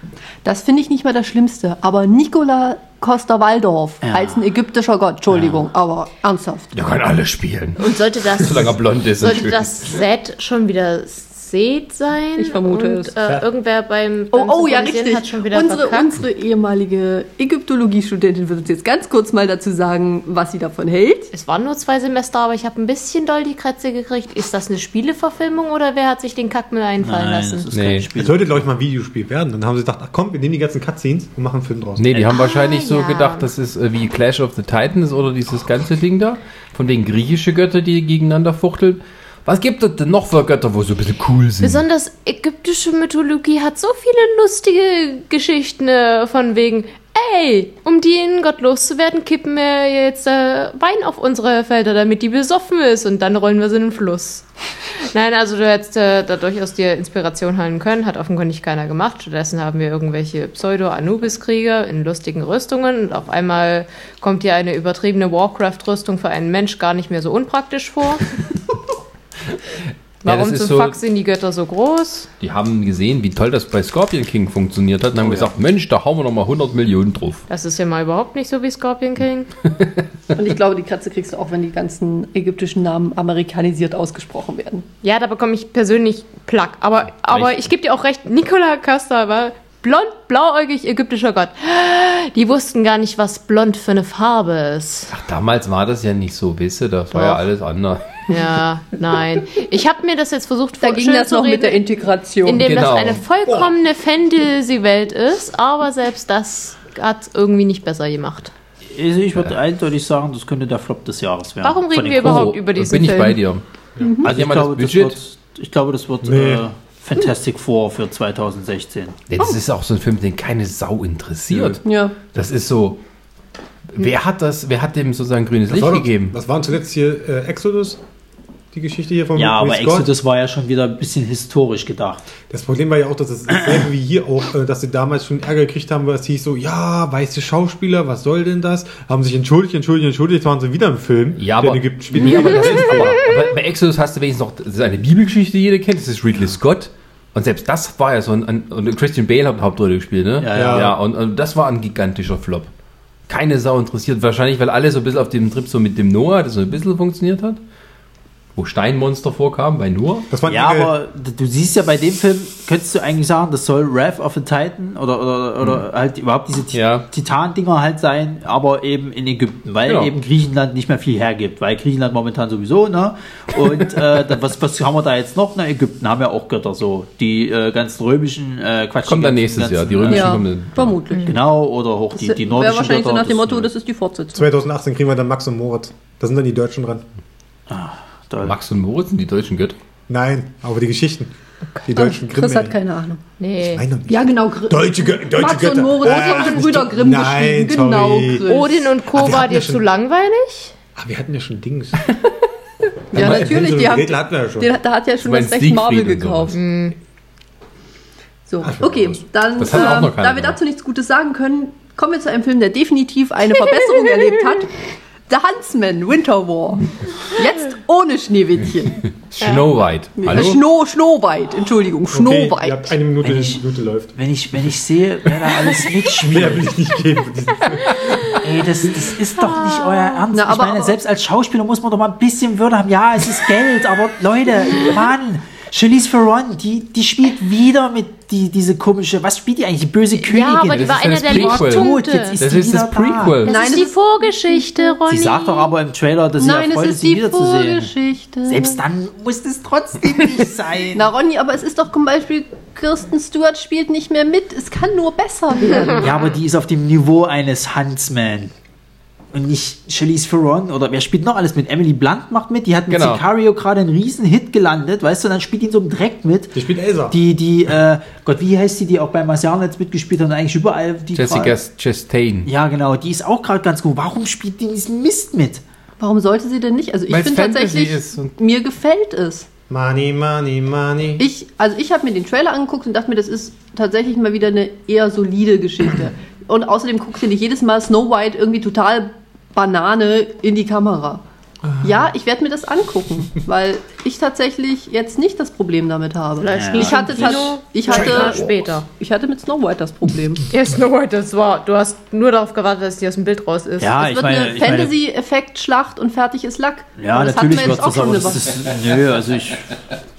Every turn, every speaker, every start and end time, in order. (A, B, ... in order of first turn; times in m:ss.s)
0:00.4-0:06.7 A
0:04.0-0:04.4 B
0:05.3-0:05.6 B
0:06.7-0:09.9 C
0:07.8-0:16.1 D
0:12.4-0:13.1 A
0:14.3-0:21.3 A
0:21.3-0:27.7 D
0:27.0-0:28.6 B
0:27.7-0:28.0 C
0:28.1-0:32.1 E
0:32.0-0:41.8 C
0:32.2-0:33.5 D
0:41.6-0:54.4 D
0:55.1-1:08.2 D
1:10.2-1:11.0 C
1:10.2-1:12.3 D
1:12.4-1:17.4 C
1:15.2-1:15.5 E
1:17.5-1:19.5 D
1:20.3-1:24.8 A
1:25.0-1:35.1 D
1:35.1-1:38.2 C
1:37.1-1:37.4 D
1:38.3-1:41.8 D
1:40.8-1:42.7 A
1:42.4-1:48.5 D
1:42.5-1:43.2 C
1:48.9-1:52.5 B
1:51.6-1:53.4 D
1:52.2-1:53.6 C
1:54.0-1:54.3 A
1:54.2-1:55.2 C
1:54.2-1:59.2 B
1:56.2-1:56.6 E
1:59.3-2:01.8 C
2:01.5-2:01.8 B
2:01.8-2:02.1 A
2:02.3-2:03.0 C
2:03.9-2:06.3 C
2:05.7-2:08.0 E
2:08.7-2:10.1 E
2:09.3-2:12.2 B
2:12.5-2:23.2 E
2:21.4-2:32.7 C
2:30.4-2:31.0 B
2:30.5-2:30.9 E
2:33.3-2:37.6 C
2:38.6-2:40.3 C
2:40.3-2:40.9 E
2:40.4-3:00.4 B
2:46.7-2:47.0 C
2:49.8-2:50.1 C
2:59.0-3:01.0 C
3:00.1-3:01.4 A
3:01.1-3:01.4 D
3:01.2-3:03.7 B
3:02.1-3:04.5 A
3:04.3-3:07.0 E
3:07.7-3:08.6 B
3:08.4-3:09.8 C
3:10.1-3:11.3 E
3:11.8-3:12.7 E
3:11.9-3:13.2 A
3:13.4-3:13.8 D
3:13.6-3:18.4 E
3:14.1-3:18.9 A
3:18.4-3:20.7 D
3:19.1-3:19.8 E
3:21.0-3:22.1 E
3:23.1-3:24.7 E
3:23.1-3:26.5 A
3:25.2-3:26.6 C
3:26.5-3:26.9 D
3:28.5-3:39.1 A
3:28.6-3:29.2 E
3:29.5-3:30.6 C
3:39.3-3:40.6 C
3:39.4-3:39.7 D
3:40.2-3:42.9 A
3:42.1-3:44.1 E
3:43.2-3:43.6 B
3:44.1-3:46.8 B
3:46.2-3:48.2 E
3:48.0-3:48.4 D
3:48.3-4:03.4 B
3:49.4-3:50.2 D
3:50.3-3:51.0 A
4:00.2-4:02.4 D
4:00.7-4:03.6 C
4:03.4-4:05.7 D
4:03.4-4:05.0 A
4:05.1-4:07.9 B
4:06.4-4:08.8 A
4:08.4-4:11.0 B
4:10.9-4:16.1 A
4:16.0-4:18.5 B
4:19.3-4:26.6 B
4:22.9-4:23.2 C
4:26.5-4:27.2 E
4:27.1-4:31.6 B
4:31.1-4:32.5 C
4:32.4-4:35.6 B
4:36.0-4:39.5 A
4:37.1-4:38.3 C
4:39.7-4:41.3 E
4:41.2-4:51.2 A
4:51.6-4:52.1 E
4:51.8-5:00.4 A
4:56.4-4:58.9 D
4:56.5-4:57.5 B
5:00.5-5:04.3 D
5:03.8-5:05.0 B
5:04.0-5:08.4 A
5:07.0-5:09.7 B